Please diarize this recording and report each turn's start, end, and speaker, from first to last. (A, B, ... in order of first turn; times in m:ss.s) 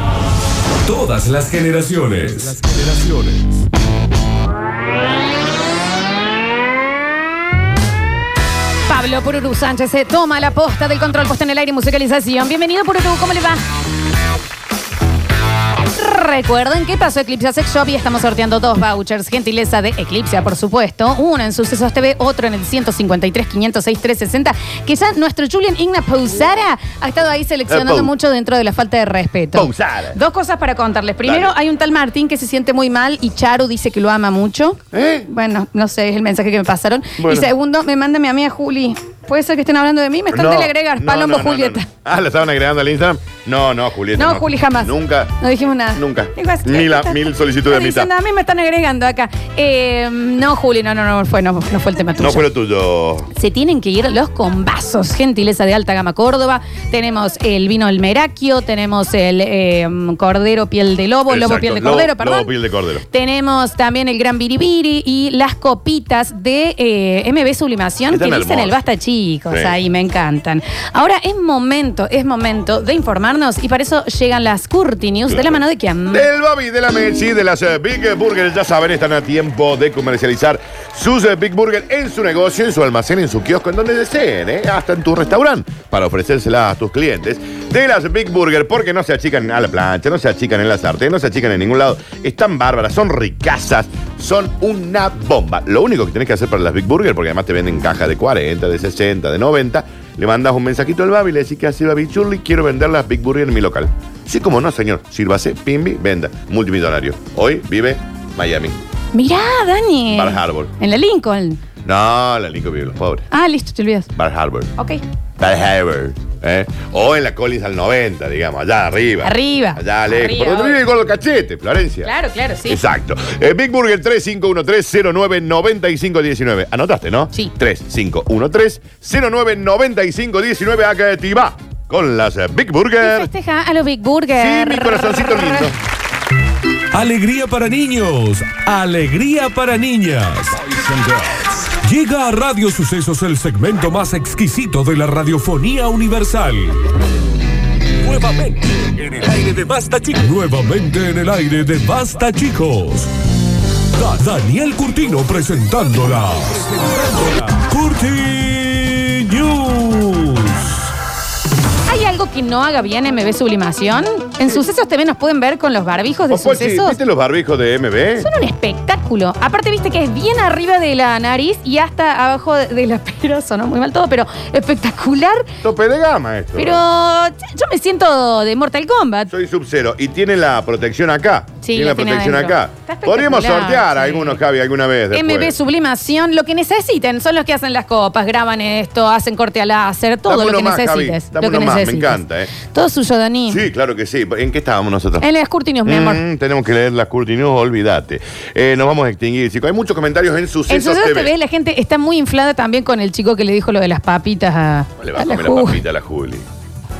0:00.8-0:03.5 A
0:08.9-0:13.6 B
0:15.9-0:41.9 B
0:27.7-0:28.1 C
0:29.5-0:30.2 C
0:31.2-0:31.5 C
0:34.9-0:35.3 C
0:37.2-0:37.5 C
0:40.3-0:45.4 C
0:44.2-0:52.5 B
0:45.9-0:48.1 C
0:52.2-0:53.3 C
0:53.3-1:02.5 B
1:01.3-1:03.0 C
1:03.1-1:16.2 B
1:08.1-1:08.7 C
1:09.5-1:09.7 C
1:15.3-1:15.6 C
1:16.1-1:48.8 C
1:49.1-1:51.6 B
1:50.1-1:50.7 C
1:51.8-1:53.3 C
1:53.3-1:54.1 B
1:54.1-1:54.7 C
1:55.4-2:02.1 C
1:59.2-2:00.8 B
2:02.0-2:02.8 B
2:02.7-2:13.3 C
2:13.0-2:15.7 B
2:14.3-2:15.8 C
2:16.9-2:26.8 A
2:28.0-2:33.1 A
2:33.9-2:40.9 A
2:41.9-2:47.0 B
2:46.3-2:48.3 C
2:48.2-2:55.5 B
2:55.6-2:56.8 C
2:56.6-2:59.3 B
2:59.3-3:05.5 C
3:01.6-3:04.4 B
3:05.1-3:13.6 B
3:10.3-3:12.5 C
3:13.5-3:15.2 C
3:15.2-3:16.2 B
3:15.8-3:21.3 C
3:20.7-3:25.8 B
3:25.0-3:26.4 C